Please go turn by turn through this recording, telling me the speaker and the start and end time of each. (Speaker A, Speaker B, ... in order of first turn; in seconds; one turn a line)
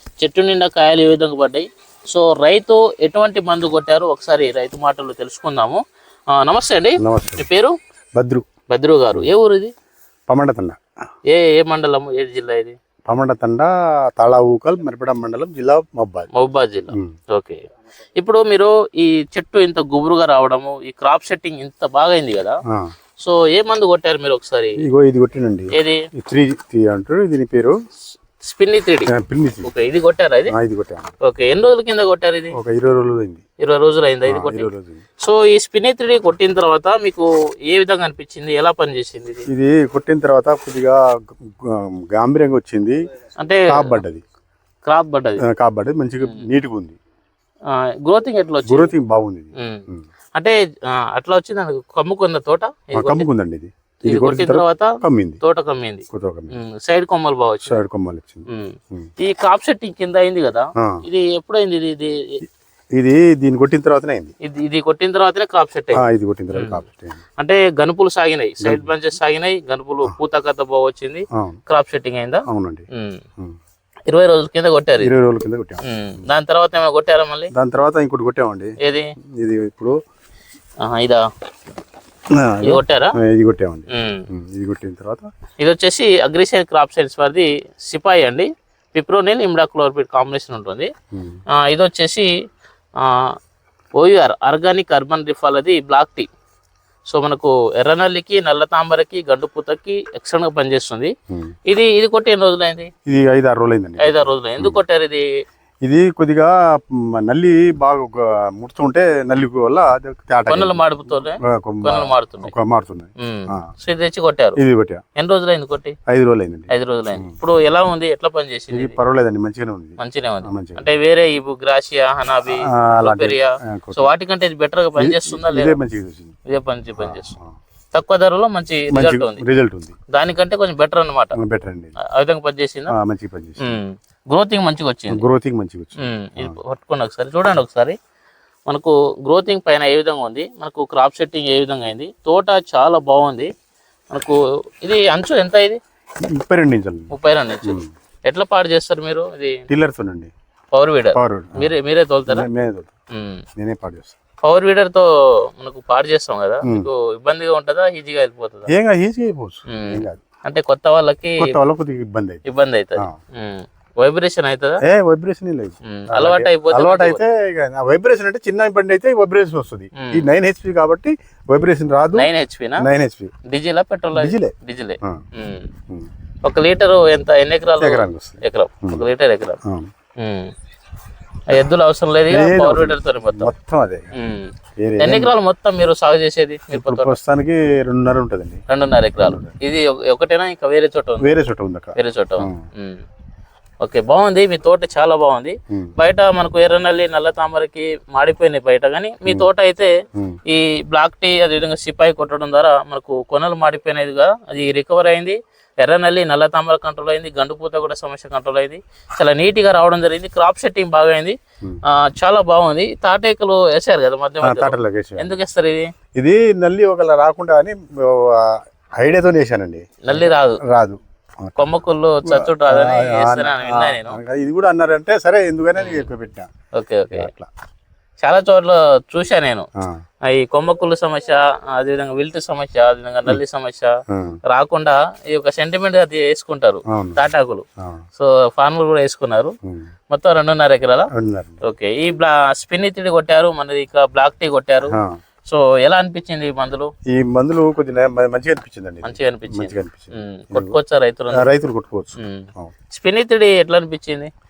Speaker A: 0.2-7.8
Speaker B: 7.0-7.5
Speaker B: 8.2-8.5
Speaker A: 8.7-9.7
Speaker B: 10.3-10.8
Speaker A: 11.3-12.8
Speaker B: 13.1-16.3
Speaker A: 16.3-17.6
Speaker A: 18.1-22.6
Speaker A: 23.2-24.8
Speaker B: 24.8-27.8
Speaker A: 25.7-26.1
Speaker A: 28.4-29.1
Speaker B: 29.1-29.7
Speaker A: 29.6-30.5
Speaker B: 30.5-31.1
Speaker A: 31.2-32.5
Speaker B: 32.5-33.4
Speaker A: 33.6-39.5
Speaker B: 34.2-35.0
Speaker B: 39.5-41.0
Speaker B: 41.6-43.0
Speaker A: 43.4-44.0
Speaker B: 43.7-44.2
Speaker A: 44.8-45.4
Speaker B: 45.4-47.0
Speaker A: 47.7-48.9
Speaker B: 48.7-50.0
Speaker A: 49.6-53.3
Speaker B: 52.9-55.4
Speaker A: 54.0-57.8
Speaker B: 56.1-56.6
Speaker B: 57.7-59.1
Speaker A: 58.5-62.4
Speaker B: 62.9-64.3
Speaker A: 64.4-66.8
Speaker B: 65.9-67.2
Speaker A: 67.4-73.2
Speaker B: 68.6-68.9
Speaker B: 71.3-71.6
Speaker B: 72.5-72.8
Speaker A: 74.1-75.1
Speaker B: 75.0-75.8
Speaker A: 75.8-77.5
Speaker B: 77.5-78.7
Speaker A: 78.8-79.1
Speaker B: 79.4-80.0
Speaker A: 80.8-81.3
Speaker B: 82.3-85.3
Speaker A: 82.6-83.2
Speaker A: 83.9-84.3
Speaker A: 85.6-90.9
Speaker B: 91.1-91.4
Speaker A: 91.5-92.3
Speaker A: 93.0-93.3
Speaker A: 94.0-96.3
Speaker A: 97.1-101.1
Speaker A: 101.7-102.9
Speaker B: 103.0-104.8
Speaker A: 104.0-105.2
Speaker B: 105.8-113.7
Speaker A: 110.5-112.5
Speaker A: 113.2-114.6
Speaker B: 114.6-115.0
Speaker A: 115.2-115.9
Speaker B: 116.1-117.3
Speaker A: 116.7-119.0
Speaker B: 118.7-120.9
Speaker A: 120.0-125.8
Speaker B: 122.5-124.1
Speaker B: 125.0-126.3
Speaker A: 126.5-127.3
Speaker B: 127.0-127.5
Speaker A: 127.9-129.4
Speaker B: 128.9-129.9
Speaker A: 130.1-131.4
Speaker B: 131.3-131.9
Speaker A: 132.0-132.9
Speaker B: 132.9-133.8
Speaker A: 133.6-135.2
Speaker B: 135.1-136.6
Speaker A: 136.0-137.9
Speaker A: 138.7-143.5
Speaker A: 144.1-145.8
Speaker B: 146.3-147.1
Speaker A: 147.1-149.6
Speaker B: 147.6-147.9
Speaker B: 149.7-150.3
Speaker A: 150.7-152.4
Speaker B: 151.1-151.7
Speaker B: 152.3-152.9
Speaker A: 153.1-153.4
Speaker B: 153.6-154.2
Speaker A: 154.4-158.7
Speaker B: 158.7-160.2
Speaker A: 159.7-161.6
Speaker B: 161.4-162.4
Speaker A: 162.4-164.8
Speaker B: 164.8-173.3
Speaker A: 165.8-167.2
Speaker A: 169.9-170.3
Speaker A: 172.1-172.9
Speaker A: 173.5-175.7
Speaker B: 174.2-175.2
Speaker A: 176.4-179.6
Speaker B: 177.8-179.0
Speaker B: 179.6-179.9
Speaker A: 180.2-180.5
Speaker A: 181.5-183.5
Speaker B: 182.3-184.1
Speaker A: 184.1-187.2
Speaker B: 184.8-185.3
Speaker B: 186.7-188.6
Speaker A: 188.7-191.4
Speaker B: 189.2-189.5
Speaker B: 191.2-192.6
Speaker A: 191.9-193.0
Speaker A: 193.8-199.9
Speaker A: 200.5-215.9
Speaker B: 214.4-215.4
Speaker B: 216.2-226.5
Speaker A: 220.0-220.6
Speaker A: 221.6-224.2
Speaker A: 225.8-226.1
Speaker A: 226.7-227.3
Speaker B: 227.1-227.5
Speaker A: 228.2-229.7
Speaker A: 230.3-233.9
Speaker B: 234.1-234.4
Speaker A: 234.5-237.6
Speaker B: 236.9-237.2
Speaker A: 238.2-239.5
Speaker B: 239.6-239.9
Speaker A: 240.1-241.1
Speaker B: 241.1-241.6
Speaker A: 241.6-244.9
Speaker B: 244.9-245.2
Speaker A: 245.5-246.9
Speaker B: 247.1-250.8
Speaker A: 249.0-251.5
Speaker B: 251.3-252.7
Speaker A: 252.2-254.3